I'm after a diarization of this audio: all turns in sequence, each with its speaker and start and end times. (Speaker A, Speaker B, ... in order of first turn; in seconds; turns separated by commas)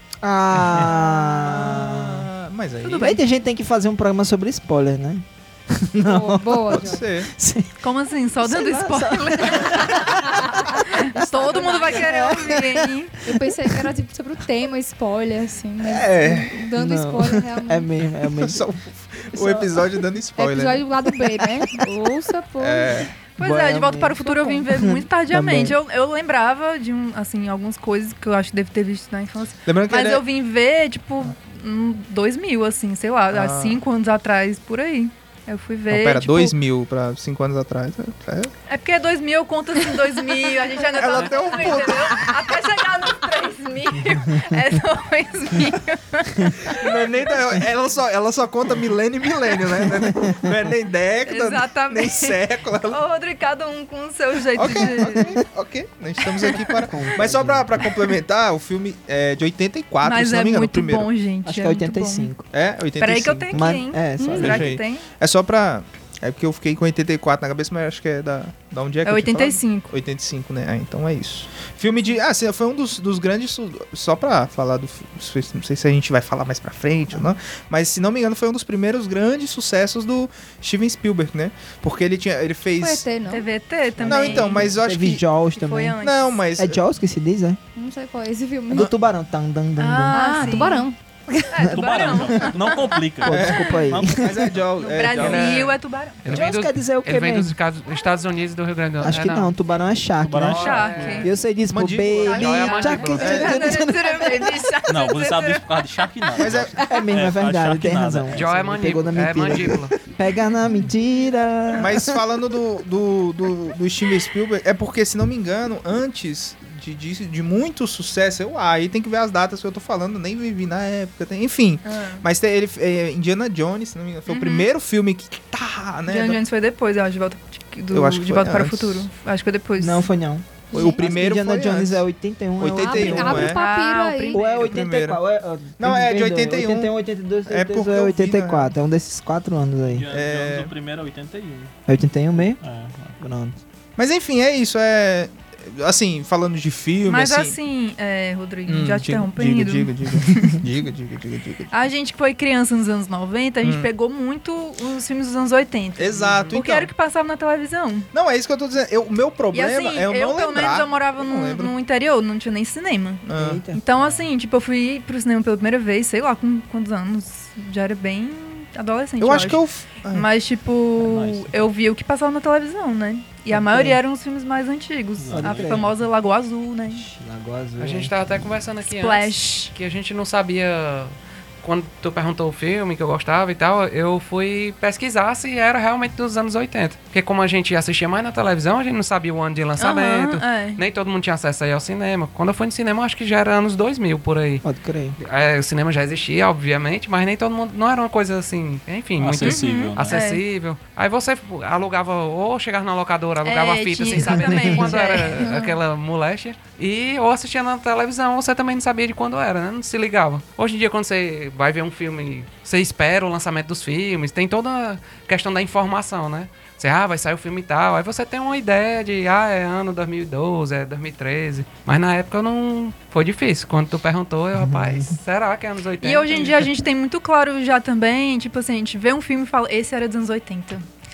Speaker A: 0.2-2.3, Speaker B: 0.6-3.2, Speaker C: 2.8-3.2, Speaker A: 2.9-7.8, Speaker D: 6.0-7.0, Speaker B: 6.7-7.3, Speaker C: 7.8-13.2, Speaker A: 8.4-13.8, Speaker D: 10.3-10.6, Speaker D: 11.3-12.0, Speaker D: 13.2-17.9, Speaker B: 15.8-16.6, Speaker A: 16.7-18.7, Speaker B: 18.3-20.9, Speaker A: 19.3-20.0, Speaker D: 20.4-23.0, Speaker B: 22.6-23.1, Speaker C: 23.4-36.5, Speaker A: 23.4-25.8, Speaker D: 24.2-24.6, Speaker B: 29.7-30.2, Speaker B: 33.3-33.8, Speaker B: 35.9-38.5, Speaker C: 38.7-47.1, Speaker B: 40.9-42.4, Speaker A: 44.0-44.5, Speaker B: 46.7-53.0, Speaker A: 49.9-50.5, Speaker C: 51.3-55.3, Speaker B: 54.6-61.1, Speaker A: 54.8-55.4, Speaker C: 56.4-56.7, Speaker A: 56.7-57.9, Speaker C: 60.0-62.3, Speaker A: 61.5-62.4, Speaker B: 62.5-63.7, Speaker C: 63.0-65.1, Speaker A: 63.5-64.7, Speaker D: 64.2-64.5, Speaker B: 64.4-83.1, Speaker C: 69.0-69.9, Speaker D: 82.8-83.5, Speaker C: 83.3-84.8, Speaker A: 84.0-86.0, Speaker B: 84.0-85.2, Speaker C: 85.5-86.4, Speaker B: 86.0-86.8, Speaker A: 86.6-87.6, Speaker D: 87.8-88.9, Speaker A: 88.7-90.8, Speaker C: 89.8-90.9, Speaker D: 90.1-91.5, Speaker C: 91.5-93.0, Speaker A: 91.6-92.6, Speaker E: 91.7-94.2, Speaker A: 93.2-94.5, Speaker B: 93.3-95.7, Speaker C: 94.8-96.2, Speaker F: 95.1-99.5, Speaker A: 96.3-97.6, Speaker A: 99.0-104.6, Speaker E: 100.2-101.3, Speaker F: 100.5-101.2, Speaker C: 100.5-101.3, Speaker B: 101.7-102.7, Speaker C: 102.2-105.8, Speaker F: 102.3-103.5, Speaker B: 103.2-103.6, Speaker E: 104.9-108.9, Speaker B: 106.4-106.8, Speaker A: 106.8-112.2, Speaker F: 108.3-110.0, Speaker B: 111.8-126.4, Speaker C: 121.8-122.2, Speaker C: 124.3-124.7, Speaker C: 126.1-130.1, Speaker B: 127.9-129.1, Speaker A: 129.8-133.6, Speaker B: 130.7-132.0, Speaker B: 132.6-133.6, Speaker D: 132.8-134.4, Speaker C: 133.5-134.8, Speaker A: 134.3-140.1, Speaker B: 134.5-135.2, Speaker B: 135.8-136.9, Speaker B: 137.5-138.7, Speaker E: 139.9-141.7, Speaker B: 140.1-140.7, Speaker A: 141.9-142.6, Speaker E: 142.6-143.2, Speaker A: 143.2-143.6, Speaker B: 144.0-147.6, Speaker C: 147.1-150.6, Speaker B: 148.7-151.7, Speaker C: 151.7-158.1, Speaker B: 153.6-153.9, Speaker B: 156.0-156.9, Speaker B: 158.1-161.7, Speaker C: 159.5-177.1, Speaker B: 163.2-163.6, Speaker A: 163.3-164.1, Speaker B: 169.2-170.3, Speaker E: 171.0-171.7, Speaker A: 173.5-174.0, Speaker E: 175.2-175.9, Speaker A: 175.3-175.9, Speaker A: 176.9-178.1, Speaker F: 177.8-194.6, Speaker C: 178.8-179.7, Speaker C: 189.8-190.8, Speaker A: 194.6-195.2, Speaker F: 195.2-226.7, Speaker E: 199.2-200.2, Speaker C: 199.4-200.4, Speaker C: 203.4-205.4, Speaker D: 205.4-205.8, Speaker A: 224.6-225.2, Speaker C: 226.0-230.9